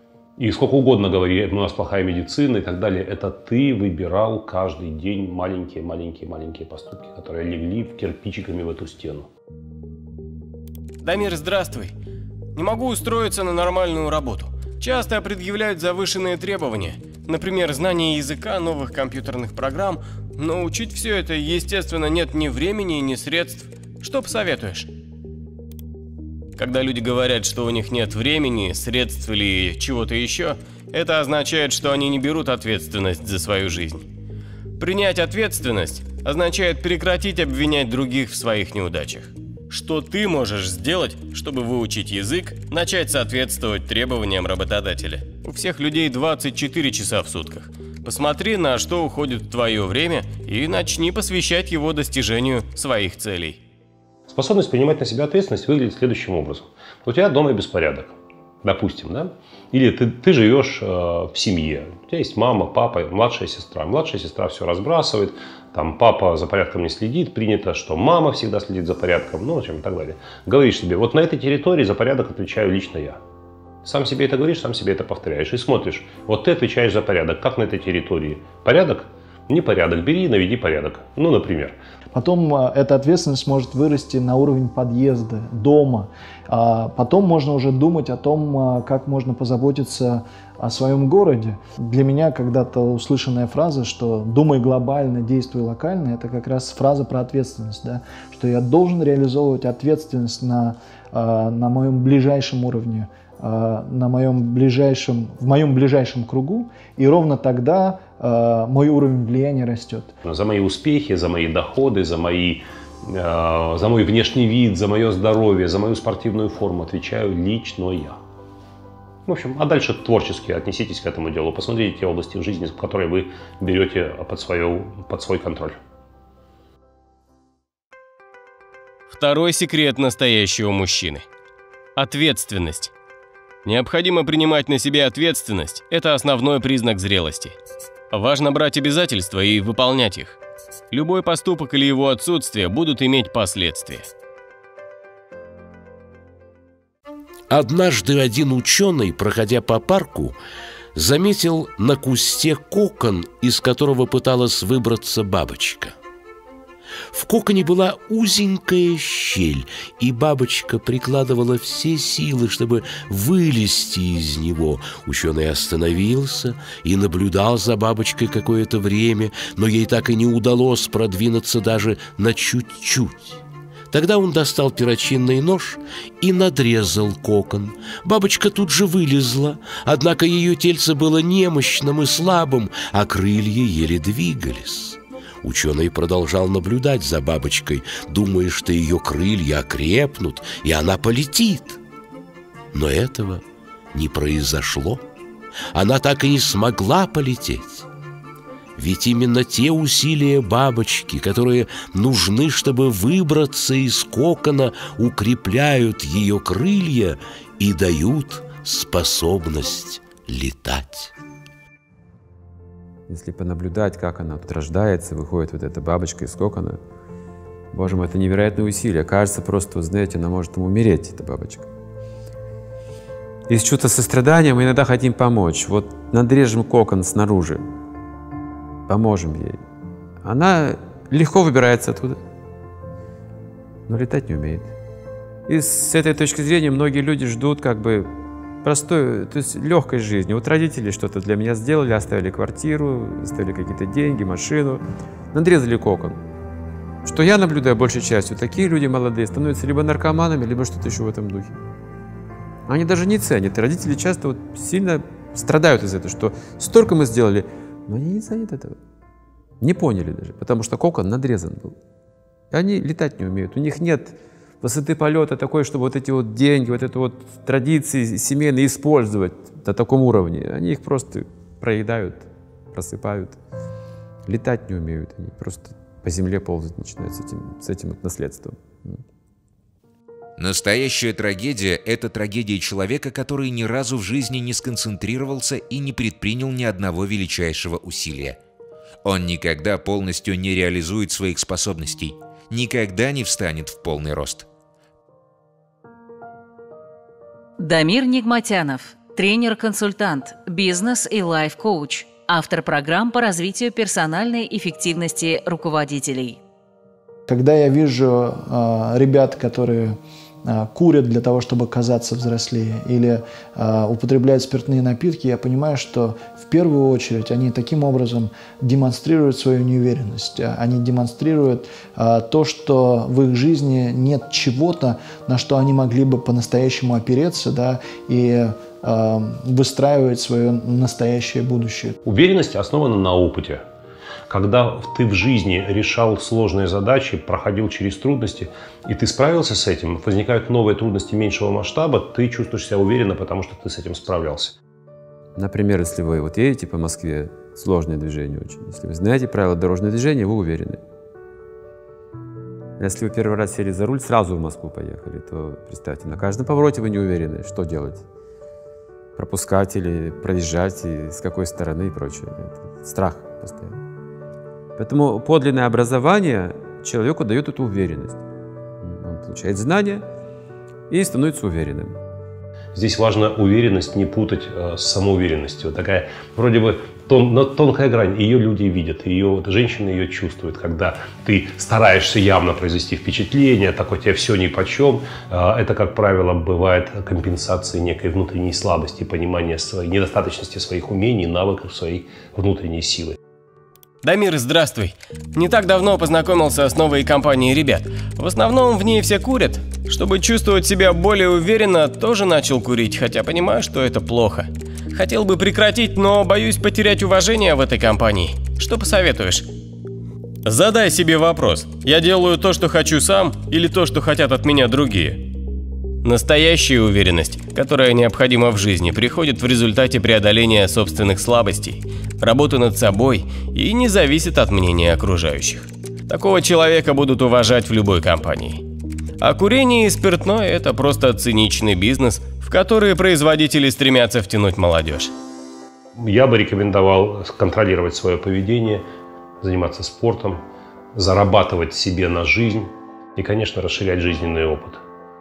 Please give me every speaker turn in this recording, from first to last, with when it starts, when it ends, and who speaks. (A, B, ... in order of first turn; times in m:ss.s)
0:00.4-0:09.3 A
0:11.0-0:11.9 B
0:12.5-0:24.9 B
0:26.6-0:34.0 B
0:34.8-0:53.6 B
0:54.3-1:13.2 A
1:13.8-1:21.8 A
1:22.1-1:50.1 C
1:50.2-1:58.2 A
1:59.2-2:05.8 A
2:09.1-2:11.2 B
2:12.0-2:12.9 B
2:13.6-2:17.6 B
2:18.1-2:20.4 B
2:20.9-2:24.1 B
2:27.5-2:30.4 D
2:30.9-2:36.0 D
2:37.1-3:11.8 D
3:12.7-3:13.4 D
3:13.9-3:15.0 D
3:15.7-3:17.9 D
3:18.8-3:31.1 D
3:33.1-3:36.8 E
3:37.7-3:41.7 E
3:43.5-3:47.6 E
3:48.9-3:49.6 E
3:50.2-3:52.2 E
3:53.9-3:54.7 E
3:55.5-4:06.2 E
4:07.0-4:11.6 E
4:12.7-4:18.8 E
4:19.6-4:21.8 E
4:22.5-4:33.4 E
4:34.3-4:39.0 E
4:40.4-4:48.4 F
4:49.0-4:54.5 F
4:57.6-5:06.4 G
5:07.3-5:32.0 C
5:32.0-5:33.6 A
5:34.3-5:44.6 A
5:45.4-5:50.8 E
5:52.8-5:58.0 E
5:59.2-6:03.8 E
6:04.8-6:08.2 E
6:08.8-6:10.0 E
6:10.9-6:12.0 E
6:12.7-6:33.2 A
6:34.0-6:49.5 B
6:50.4-6:55.3 B
6:56.0-7:08.6 B
7:09.2-7:15.1 B
7:16.0-7:18.9 A
7:19.4-7:20.4 A
7:20.9-7:24.8 A